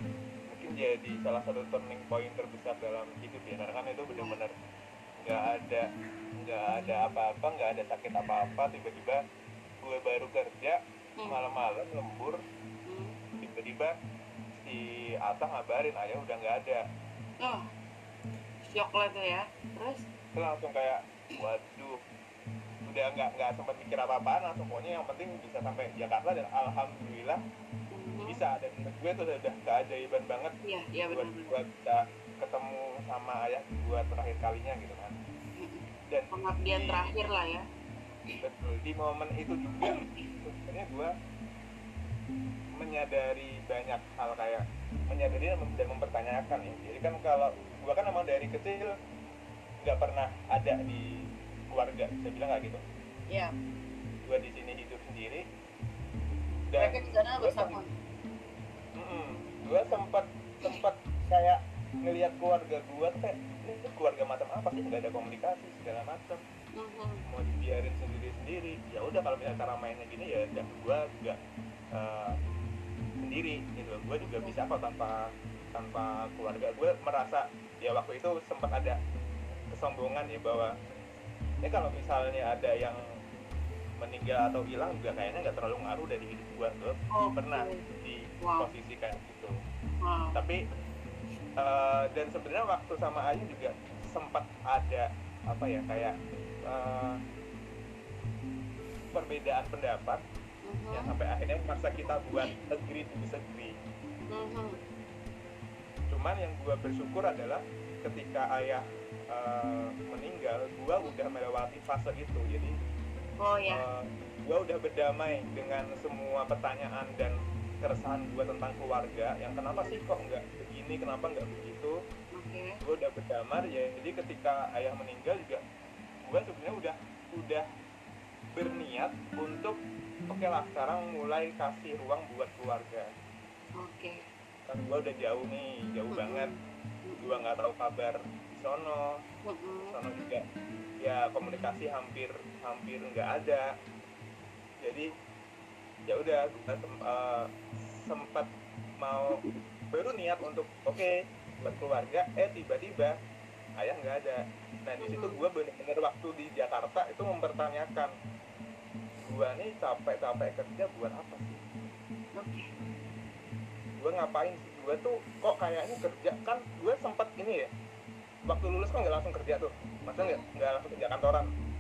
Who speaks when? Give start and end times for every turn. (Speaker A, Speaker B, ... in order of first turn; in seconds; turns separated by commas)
Speaker A: 0.5-4.5, Speaker B: 4.1-4.4, Speaker A: 5.2-5.9, Speaker A: 6.4-9.2, Speaker B: 6.7-7.1, Speaker A: 9.8-12.4, Speaker B: 12.9-13.2, Speaker A: 13.4-14.0, Speaker A: 14.7-16.8, Speaker B: 17.4-17.7, Speaker B: 18.7-20.0, Speaker A: 20.4-22.0, Speaker A: 22.9-27.4, Speaker B: 27.9-28.4, Speaker A: 28.3-30.6, Speaker B: 30.6-31.6, Speaker A: 31.1-35.2, Speaker B: 35.6-37.6, Speaker A: 36.1-37.1, Speaker A: 38.4-41.1, Speaker B: 39.9-40.3, Speaker A: 42.8-48.9, Speaker A: 49.8-51.1, Speaker A: 51.7-52.8, Speaker A: 54.2-55.4, Speaker A: 56.7-57.8, Speaker B: 56.8-57.9, Speaker A: 59.0-66.4, Speaker B: 66.8-67.2, Speaker A: 67.3-71.4, Speaker A: 71.9-72.4, Speaker A: 73.2-75.2, Speaker B: 74.2-74.6, Speaker A: 75.7-79.0, Speaker A: 79.7-80.8, Speaker A: 81.6-83.0, Speaker A: 84.0-89.5, Speaker B: 87.1-87.8, Speaker B: 88.4-88.7, Speaker B: 90.0-90.4, Speaker A: 90.3-90.6, Speaker A: 91.6-96.2, Speaker A: 96.7-97.2, Speaker A: 99.1-100.2, Speaker B: 100.7-101.2, Speaker A: 100.9-103.8, Speaker B: 104.3-104.8, Speaker A: 106.1-112.7, Speaker B: 113.4-113.8, Speaker A: 113.7-122.0, Speaker B: 119.7-120.0, Speaker B: 122.3-122.8, Speaker A: 122.8-125.6, Speaker A: 126.3-127.7, Speaker A: 128.6-129.8, Speaker A: 130.3-133.1, Speaker B: 133.8-134.2, Speaker A: 134.7-136.5, Speaker B: 136.1-137.4, Speaker A: 137.2-139.2, Speaker B: 139.5-140.0, Speaker A: 139.9-140.4, Speaker A: 141.0-143.7, Speaker A: 144.8-145.1, Speaker A: 146.1-147.5, Speaker A: 148.1-148.5, Speaker A: 149.0-149.4, Speaker A: 149.9-153.2, Speaker A: 153.8-158.1, Speaker B: 155.0-155.4, Speaker A: 159.3-161.6, Speaker B: 162.4-162.7, Speaker A: 164.0-167.7, Speaker A: 168.5-171.5